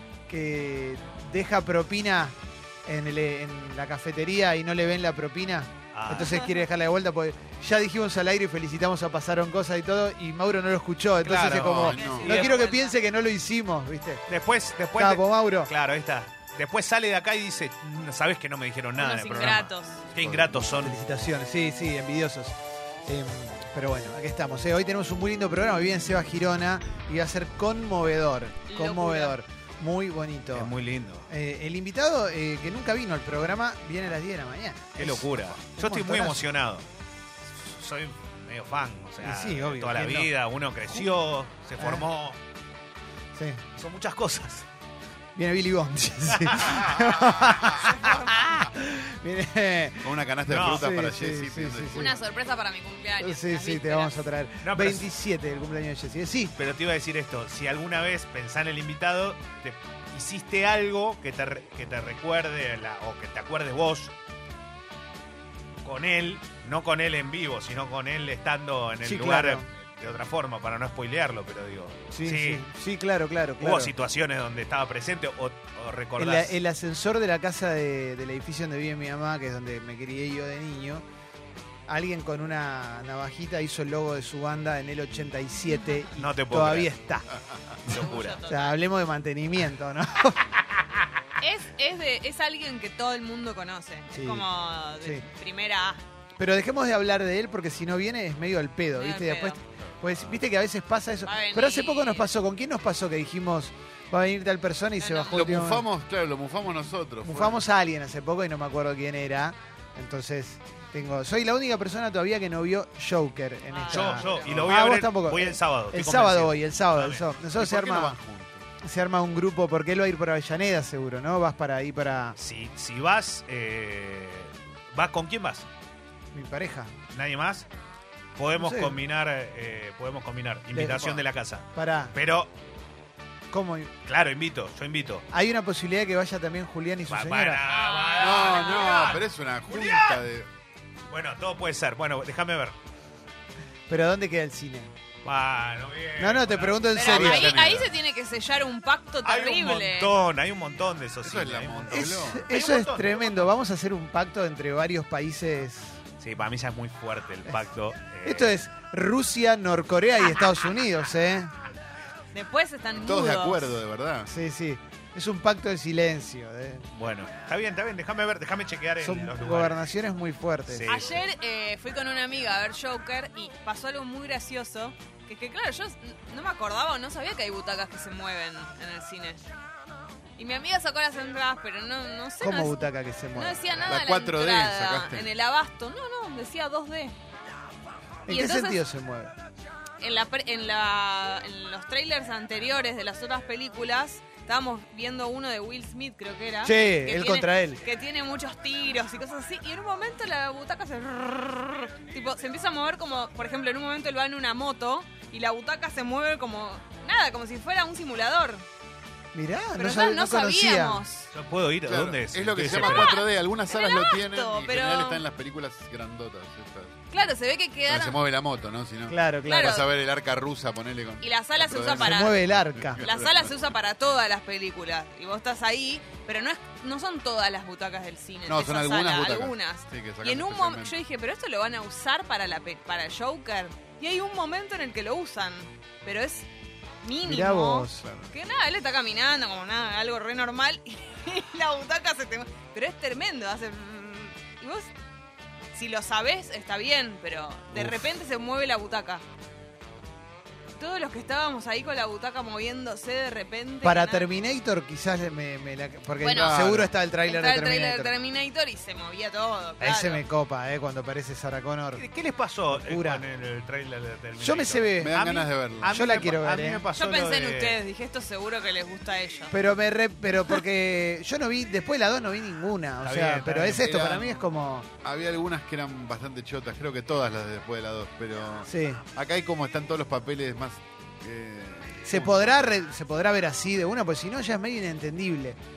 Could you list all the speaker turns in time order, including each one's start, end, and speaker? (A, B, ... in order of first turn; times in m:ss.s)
0:00.3-0:14.2 A
0:05.9-0:06.5 B
0:11.2-0:12.5 B
0:11.5-0:12.4 C
0:11.9-0:13.0 D
0:14.3-0:21.0 B
0:15.0-0:15.7 A
0:19.0-0:20.0 D
0:20.2-0:20.9 C
0:20.8-0:30.7 A
0:28.7-0:29.4 D
0:30.5-0:31.3 B
0:31.3-0:36.4 A
0:35.0-0:36.8 B
0:37.5-0:42.4 B
0:39.2-0:40.3 A
0:41.8-0:42.0 A
0:43.4-0:43.6 A
0:43.8-0:44.7 B
0:45.4-0:52.1 A
0:46.3-0:46.8 B
0:47.8-0:48.3 D
0:50.0-0:52.2 C
0:50.5-0:50.9 B
0:51.9-0:54.3 D
0:53.2-0:56.5 A
0:54.6-0:55.0 B
0:56.6-1:04.1 B
1:05.8-1:12.6 B
1:09.0-1:09.6 A
1:12.1-1:13.9 A
1:13.6-1:16.6 B
1:16.2-1:21.0 A
1:21.9-1:27.3 A
1:26.2-1:26.9 B
1:27.9-1:28.4 B
1:27.9-1:28.8 D
1:28.5-1:30.5 A
1:31.4-1:36.0 D
1:34.1-1:34.5 A
1:36.4-1:45.8 A
1:39.0-1:39.6 D
1:39.9-1:40.4 C
1:41.2-1:42.3 D
1:45.0-1:45.6 D
1:45.3-1:47.6 C
1:47.2-1:58.2 A
1:53.7-1:54.5 D
1:53.9-1:57.2 B
1:57.5-1:58.6 C
1:58.8-2:02.4 A
2:02.4-2:05.7 B
2:06.3-2:06.9 A
2:07.1-2:07.7 B
2:08.4-2:12.5 B
2:08.6-2:09.0 A
2:10.7-2:11.1 A
2:11.8-2:12.2 A
2:13.5-2:13.9 A
2:14.0-2:15.3 B
2:15.3-2:17.6 A
2:17.1-2:20.2 B
2:17.7-2:19.2 D
2:18.2-2:20.5 C
2:21.1-2:22.8 B
2:23.9-2:24.9 A
2:25.2-2:26.9 B
2:26.2-2:27.6 A
2:26.9-2:30.2 D
2:27.0-2:28.0 C
2:29.2-2:33.5 B
2:31.2-2:32.5 C
2:31.9-2:36.0 A
2:36.2-2:38.6 B
2:38.2-2:41.5 A
2:42.3-2:43.7 D
2:43.0-2:44.3 C
2:44.3-2:46.9 A
2:46.9-2:49.9 B
2:49.0-2:50.9 A
2:50.7-2:51.2 B
2:50.9-2:59.4 D
3:00.4-3:07.2 D
3:02.4-3:03.8 A
3:03.9-3:05.3 C
3:08.3-3:09.3 A
3:08.3-3:08.8 D
3:10.0-3:28.6 D
3:16.6-3:17.8 A
3:29.3-3:31.0 A
3:29.8-3:31.3 D
3:31.3-3:33.2 B
3:31.8-3:37.0 C
3:32.7-3:35.2 D
3:37.1-3:38.2 D
3:37.9-3:43.7 C
3:39.1-3:39.7 A
3:39.4-3:39.9 D
3:41.2-3:42.4 D
3:41.9-3:43.0 A
3:43.0-3:56.5 D
3:48.5-3:51.0 C
3:57.0-4:04.9 D
3:57.2-3:58.1 A
3:58.0-3:58.3 C
4:05.7-4:09.2 D
4:10.8-4:14.3 D
4:13.8-4:18.1 A
4:16.2-4:16.7 D
4:16.3-4:17.0 C
4:17.3-4:20.2 D
4:19.8-4:22.0 A
4:22.0-4:27.8 B
4:22.7-4:23.2 A
4:24.4-4:26.9 A
4:25.0-4:26.0 C
4:27.0-4:29.6 D
4:29.5-4:34.9 A
4:33.0-4:34.1 B
4:33.8-4:34.4 C
4:35.0-4:42.7 C
4:38.7-4:39.0 A
4:42.1-4:45.6 A